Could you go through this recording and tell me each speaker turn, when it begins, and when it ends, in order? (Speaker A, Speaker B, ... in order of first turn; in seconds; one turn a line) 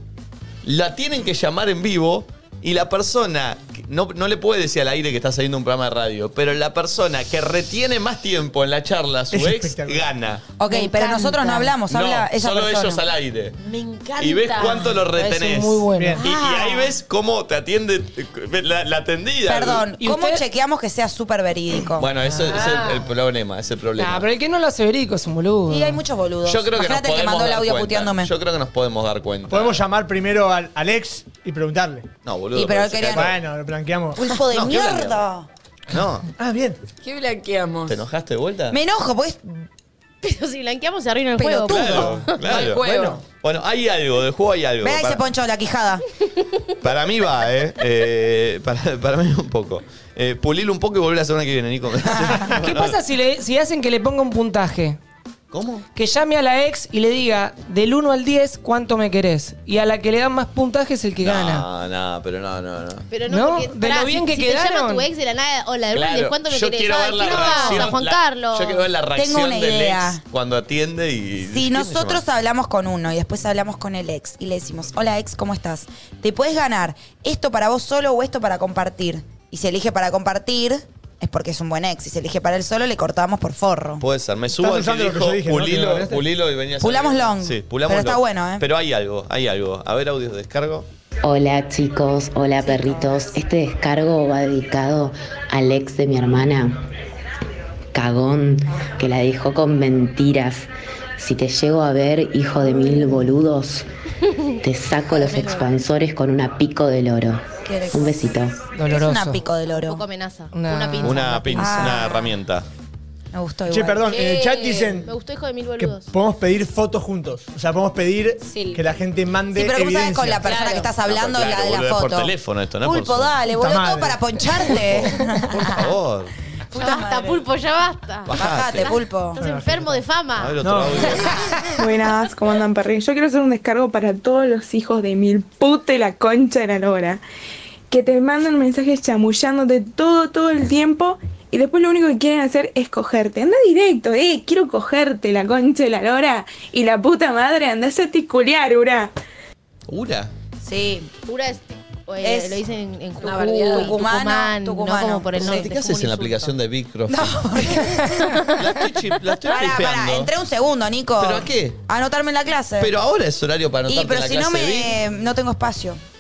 Speaker A: 0.6-10.4
Speaker B: 9.3-10.1
Speaker C: 10.6-13.0
Speaker D: 10.7-11.7
Speaker A: 11.9-13.6
Speaker D: 13.6-15.0
Speaker A: 14.2-19.9
Speaker E: 15.1-16.2
Speaker B: 15.9-16.2
Speaker C: 16.2-16.9
Speaker C: 19.5-22.1
Speaker E: 20.0-20.4
Speaker A: 22.0-24.3
Speaker E: 22.4-22.9
Speaker D: 22.5-22.9
Speaker E: 24.0-26.0
Speaker C: 25.7-28.3
Speaker A: 26.4-29.8
Speaker B: 29.5-32.1
Speaker A: 32.2-33.3
Speaker C: 32.5-33.4
Speaker B: 33.1-34.2
Speaker C: 34.2-35.5
Speaker A: 34.5-35.3
Speaker A: 35.9-36.3
Speaker B: 36.4-36.8
Speaker D: 37.0-38.0
Speaker A: 37.9-38.8
Speaker C: 38.7-39.5
Speaker F: 40.2-42.4
Speaker C: 41.4-42.2
Speaker A: 41.7-45.2
Speaker B: 42.5-43.2
Speaker D: 42.5-43.2
Speaker C: 44.8-46.0
Speaker A: 46.8-53.0
Speaker C: 52.1-52.5
Speaker E: 52.5-55.0
Speaker A: 55.5-55.9
Speaker E: 56.0-61.7
Speaker A: 61.2-63.1
Speaker F: 63.1-68.9
Speaker E: 63.3-65.1
Speaker A: 65.9-72.2
Speaker C: 67.3-67.9
Speaker C: 69.2-70.2
Speaker C: 71.5-84.0
Speaker A: 84.0-90.9
Speaker B: 84.6-86.2
Speaker C: 86.8-88.6
Speaker G: 91.2-96.8
Speaker C: 92.6-93.4
Speaker G: 97.9-103.9
Speaker G: 104.6-108.6
Speaker C: 105.1-105.7
Speaker C: 107.7-108.3
Speaker E: 108.7-109.4
Speaker C: 108.9-110.1
Speaker F: 109.6-111.7
Speaker E: 110.5-111.7
Speaker A: 111.0-112.7
Speaker C: 111.6-112.4
Speaker C: 113.3-114.1
Speaker B: 113.7-115.1
Speaker F: 114.1-116.1
Speaker B: 115.8-120.5
Speaker D: 118.4-118.8
Speaker C: 119.5-125.9
Speaker D: 120.4-120.9
Speaker A: 121.0-123.3
Speaker B: 123.5-124.2
Speaker A: 124.8-126.3
Speaker C: 126.7-127.5
Speaker F: 126.8-130.6
Speaker A: 128.3-128.9
Speaker C: 128.3-129.4
Speaker B: 129.4-130.0
Speaker A: 130.4-131.4
Speaker B: 130.6-131.1
Speaker H: 131.7-137.2
Speaker H: 137.9-149.1
Speaker A: 149.9-150.3
Speaker C: 150.6-151.1
Speaker F: 151.2-156.5
Speaker C: 152.2-152.6
Speaker D: 153.2-154.0
Speaker C: 153.7-155.7
Speaker A: 155.3-157.7
Speaker C: 157.1-158.4
Speaker A: 158.5-160.3
Speaker C: 159.5-162.9
Speaker A: 161.2-161.8
Speaker A: 162.8-164.9
Speaker C: 163.9-166.0